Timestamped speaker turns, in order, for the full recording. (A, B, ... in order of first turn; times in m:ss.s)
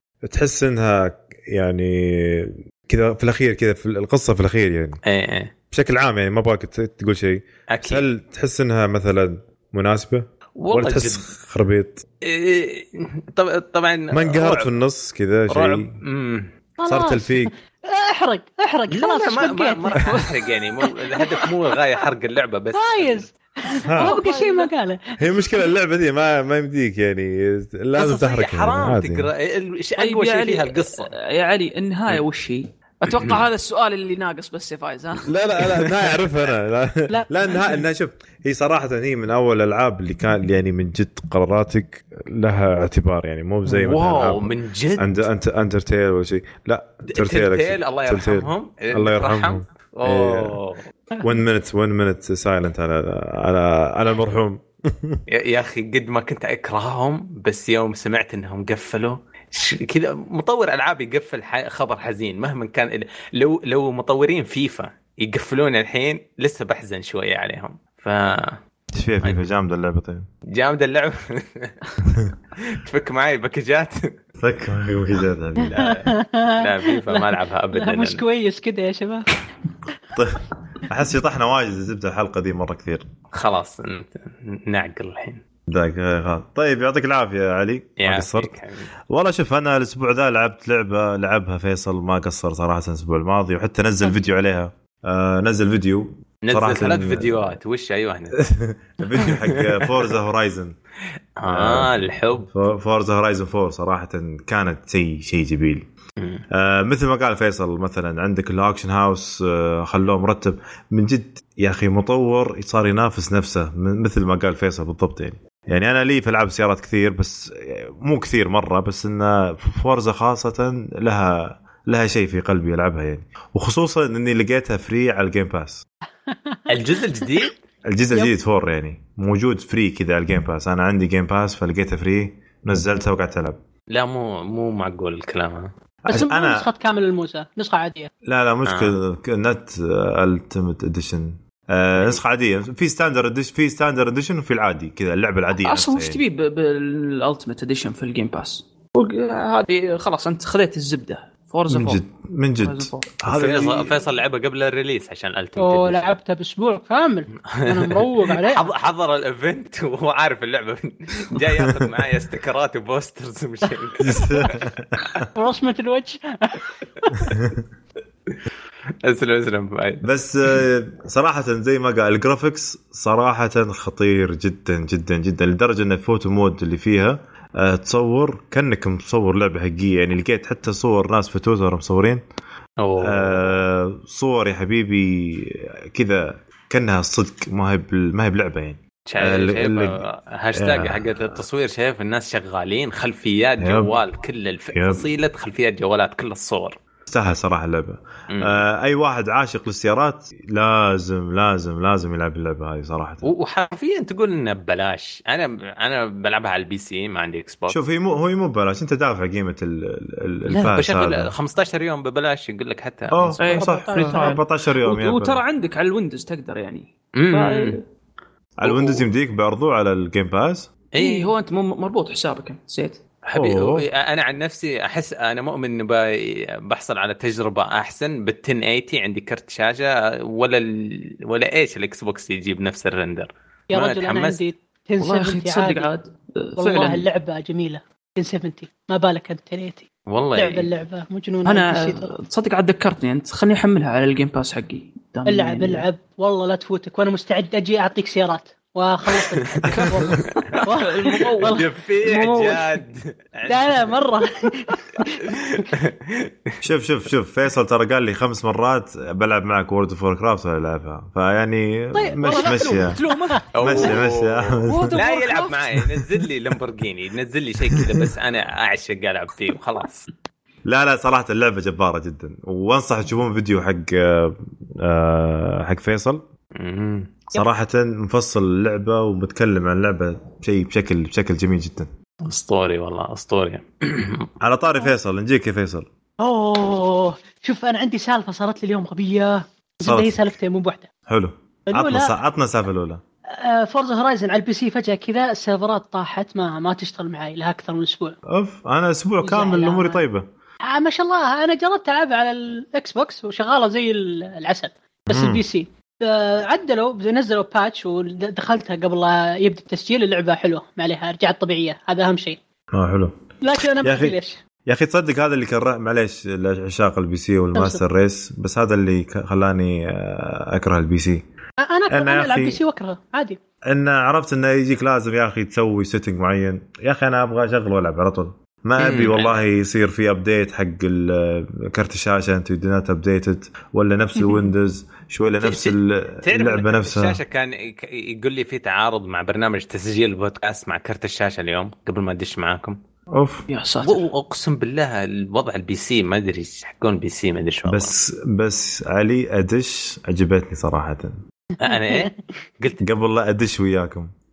0:00.2-0:05.0 A
0:05.0-0:05.5 B
0:05.7-0:12.0 A
0:07.7-0:08.0 B
0:10.6-0:11.2 B
0:12.2-0:14.8 B
0:14.1-0:15.9 A
0:15.5-0:16.5 B
0:16.8-0:20.3 C
0:16.9-0:17.5 A
0:18.9-0:23.3 B
0:21.1-0:21.4 C
0:22.7-0:25.6 C
0:23.9-0:24.2 A
0:24.0-0:24.7 D
0:25.2-0:29.3 A
0:28.0-0:31.1 B
0:30.0-0:35.3 D
0:35.2-0:50.6 A
0:37.1-0:37.7 C
0:43.6-0:45.3 B
0:47.1-0:50.8 B
0:51.2-0:55.2 A
0:55.3-1:08.6 B
1:08.9-1:10.3 A
1:10.5-1:11.7 B
1:12.6-1:14.1 B
1:14.4-1:15.9 A
1:15.6-1:19.3 C
1:15.7-1:18.2 B
1:20.2-1:23.1 A
1:23.3-1:25.4 B
1:25.7-1:28.6 A
1:28.0-1:28.9 B
1:29.1-1:37.6 A
1:36.4-1:38.4 B
1:38.4-1:40.8 A
1:39.2-1:40.1 B
1:41.4-1:42.5 B
1:41.5-1:45.9 A
1:46.5-2:05.8 A
2:06.3-2:06.6 C
2:06.7-2:07.5 B
2:07.8-2:13.6 A
2:13.9-2:15.7 B
2:16.0-2:16.7 A
2:16.1-2:18.1 C
2:18.2-2:26.2 A
2:18.6-2:18.9 B
2:22.0-2:22.2 B
2:25.6-2:32.0 D
2:31.7-2:34.0 A
2:32.6-2:33.1 D
2:33.3-2:36.1 B
2:35.6-2:38.7 C
2:37.5-2:44.7 B
2:44.0-2:45.2 A
2:45.3-2:47.3 C
2:49.0-2:50.0 B
2:50.0-3:02.2 A
3:02.8-3:03.6 B
3:03.0-3:10.0 A
3:09.1-3:16.8 B
3:10.5-3:11.4 A
3:13.6-3:14.0 A
3:14.7-3:15.0 A
3:17.1-3:23.3 A
3:18.3-3:18.6 B
3:23.2-3:27.8 B
3:27.7-3:31.3 A
3:30.5-3:33.6 B
3:33.1-3:35.4 A
3:33.4-3:37.8 D
3:37.2-3:37.8 B
3:38.6-3:40.7 A
3:38.6-3:39.0 B
3:40.9-3:41.3 B
3:41.0-3:43.0 D
3:43.2-3:54.4 B
3:43.3-3:43.8 A
3:53.7-3:55.9 C
3:55.0-3:57.0 D
3:56.6-4:02.1 C
4:00.1-4:00.7 B
4:01.4-4:05.8 D
4:05.3-4:11.6 C
4:09.7-4:12.8 D
4:11.4-4:14.2 B
4:13.4-4:15.7 C
4:15.3-4:16.5 B
4:16.6-4:23.0 A
4:21.9-4:23.4 C
4:22.2-4:23.9 D
4:23.5-4:30.1 B
4:23.6-4:25.0 A
4:24.6-4:25.8 D
4:27.7-4:28.0 A
4:30.6-4:36.2 A
4:36.6-4:37.3 B
4:37.3-4:41.9 A
4:42.2-4:44.3 B
4:44.4-4:45.9 A
4:46.2-4:50.9 C
4:49.8-4:50.4 A
4:51.1-4:53.0 A
4:51.7-4:52.1 C
4:53.3-4:58.2 C
4:58.3-5:00.2 A
4:59.2-5:00.0 C
5:00.6-5:12.4 C
5:05.1-5:05.4 A
5:12.7-5:13.1 A
5:13.4-5:14.4 C
5:13.8-5:21.2 A
5:17.5-5:17.8 C
5:21.6-5:23.4 C
5:21.9-5:22.6 A
5:23.6-5:37.2 A
5:28.8-5:29.4 B
5:35.4-5:42.8 B
5:43.1-5:43.4 A
5:43.5-5:44.0 D
5:43.8-5:47.9 B
5:47.7-5:51.2 A
5:51.6-5:52.1 C
5:51.6-5:52.8 B
5:52.8-5:54.1 A